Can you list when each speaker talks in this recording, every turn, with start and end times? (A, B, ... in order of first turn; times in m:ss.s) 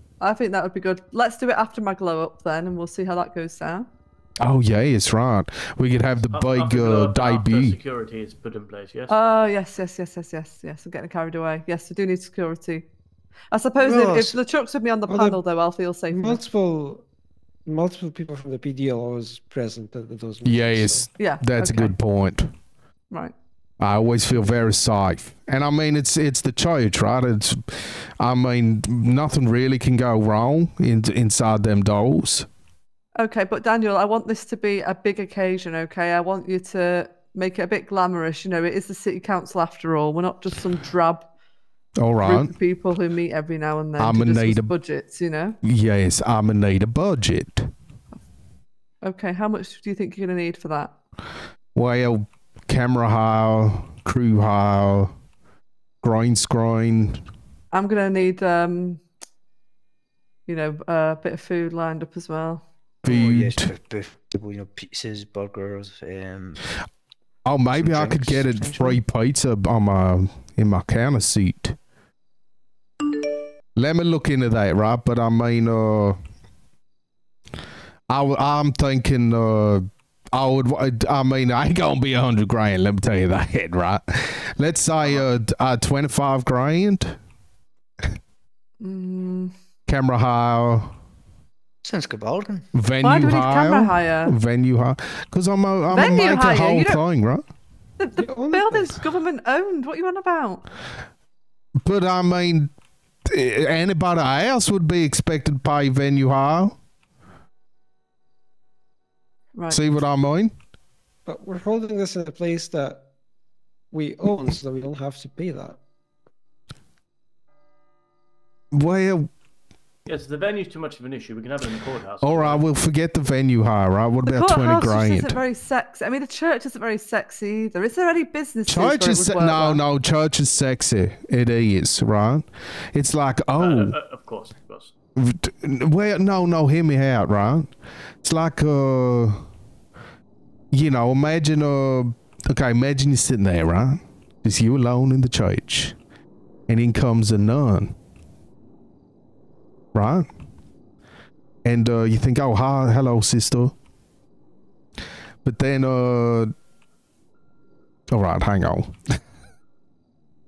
0:00.2-0:03.9 A
0:04.4-0:07.8 B
0:06.3-0:09.2 C
0:09.1-0:12.9 A
0:13.5-0:16.4 A
0:13.8-0:14.4 D
0:15.1-0:15.4 D
0:16.1-0:17.0 D
0:17.7-0:21.1 D
0:20.4-0:22.5 B
0:21.2-0:21.9 A
0:23.8-0:32.5 B
0:33.2-0:41.3 A
0:42.0-0:42.5 B
0:42.2-0:45.6 A
0:44.0-0:44.7 B
0:45.6-0:47.7 B
0:49.0-0:50.9 A
0:51.8-0:55.1 B
0:56.0-0:57.2 B
0:57.7-0:59.0 A
1:00.5-1:02.6 A
1:03.0-1:03.7 B
1:03.0-1:06.7 E
1:07.4-1:11.8 B
1:07.8-1:09.0 E
1:13.8-1:16.2 B
1:18.1-1:27.2 B
1:28.8-1:29.5 A
1:29.9-1:30.9 B
1:31.8-1:32.7 E
1:32.7-1:37.4 B
1:33.0-1:34.3 A
1:35.9-1:37.0 A
1:38.0-1:40.6 A
1:38.2-1:39.0 D
1:41.8-1:42.7 B
1:43.3-1:46.8 B
1:49.6-1:50.0 A
1:49.7-1:50.5 B
1:51.3-1:53.0 D
1:53.9-1:55.8 D
1:58.7-1:59.3 B
2:00.1-2:02.6 C
2:02.2-2:05.4 B
2:04.2-2:09.8 A
2:08.7-2:14.0 B
2:13.6-2:14.9 C
2:15.2-2:17.7 B
2:18.2-2:19.4 B
2:20.7-2:26.0 B
2:26.7-2:28.0 B
2:30.0-2:30.3 B
2:31.6-2:33.7 B
2:35.4-2:36.5 B
2:38.1-2:39.0 B